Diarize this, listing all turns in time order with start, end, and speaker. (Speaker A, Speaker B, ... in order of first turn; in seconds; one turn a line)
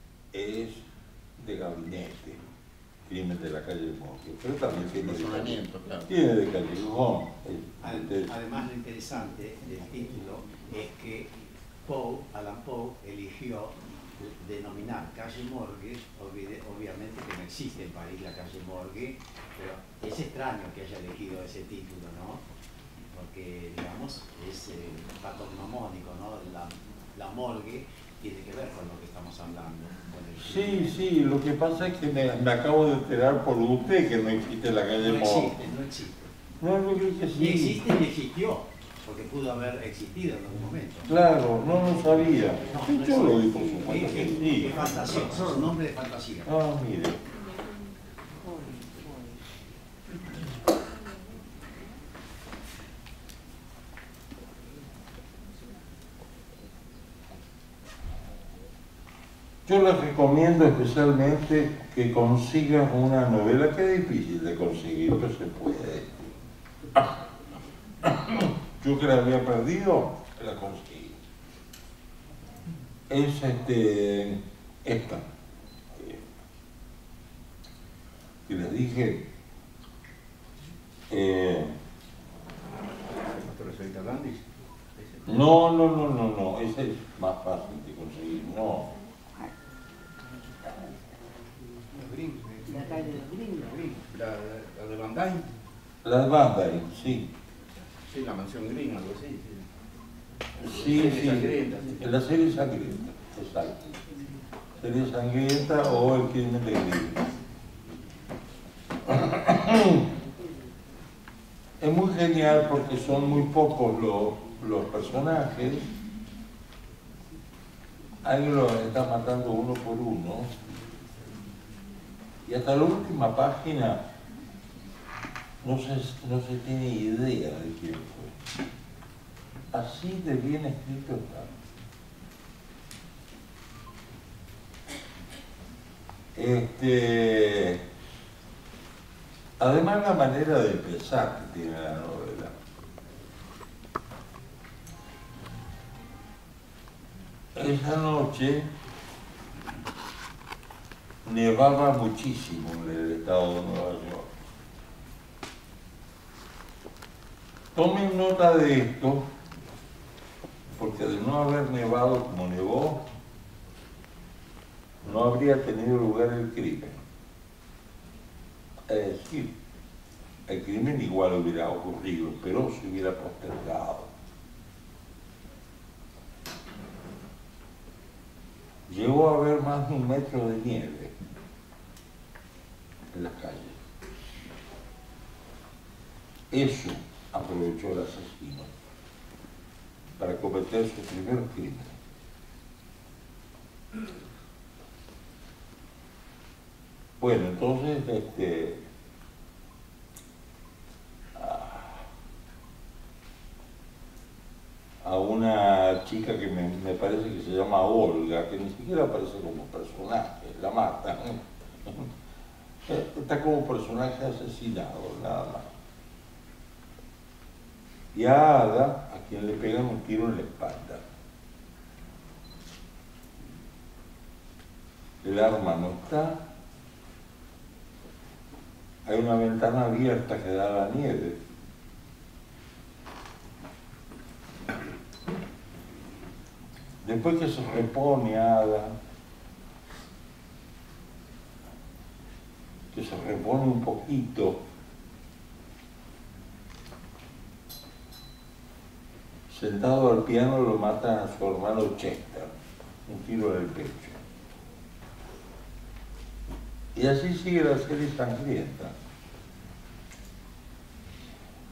Speaker A: 0.3-0.8
Speaker A: 1.4-2.4
Speaker A: 3.0-8.3
Speaker B: 5.0-6.1
Speaker C: 7.8-11.3
Speaker C: 11.8-22.4
Speaker C: 23.1-31.0
Speaker A: 30.4-35.6
Speaker C: 35.0-36.3
Speaker A: 36.6-37.8
Speaker C: 37.3-41.1
Speaker A: 41.1-45.1
Speaker C: 42.4-46.5
Speaker A: 46.4-47.2
Speaker D: 48.6-48.9
Speaker A: 59.6-66.3
Speaker A: 68.0-71.2
Speaker A: 73.1-75.2
Speaker A: 75.9-76.2
Speaker A: 78.5-79.2
Speaker A: 81.1-81.7
Speaker B: 83.3-85.2
Speaker A: 85.2-88.9
Speaker D: 92.0-94.0
Speaker B: 93.9-95.5
Speaker A: 96.0-97.3
Speaker B: 98.0-99.6
Speaker B: 100.6-102.0
Speaker A: 100.6-103.9
Speaker A: 104.8-107.2
Speaker A: 109.0-110.0
Speaker A: 111.8-115.9
Speaker A: 118.2-120.5
Speaker A: 122.4-124.0
Speaker A: 125.6-128.3
Speaker A: 129.7-131.5
Speaker A: 136.3-137.8
Speaker A: 139.6-142.5
Speaker A: 147.5-148.7
Speaker A: 151.2-154.3
Speaker A: 157.7-159.2
Speaker A: 160.7-163.0
Speaker A: 165.0-167.0
Speaker A: 168.9-169.5
Speaker A: 170.5-174.1
Speaker A: 178.9-181.1
Speaker A: 183.1-183.8
Speaker A: 186.5-188.7
Speaker A: 190.2-191.9
Speaker A: 197.2-198.8
Speaker A: 201.3-202.1
Speaker A: 205.0-212.1
Speaker A: 212.8-215.7
Speaker A: 218.1-221.0
Speaker A: 225.2-226.4
Speaker A: 229.0-231.4
Speaker A: 237.0-238.9
Speaker A: 242.9-244.6
Speaker A: 249.5-252.5
Speaker A: 253.1-254.2
Speaker A: 256.9-258.9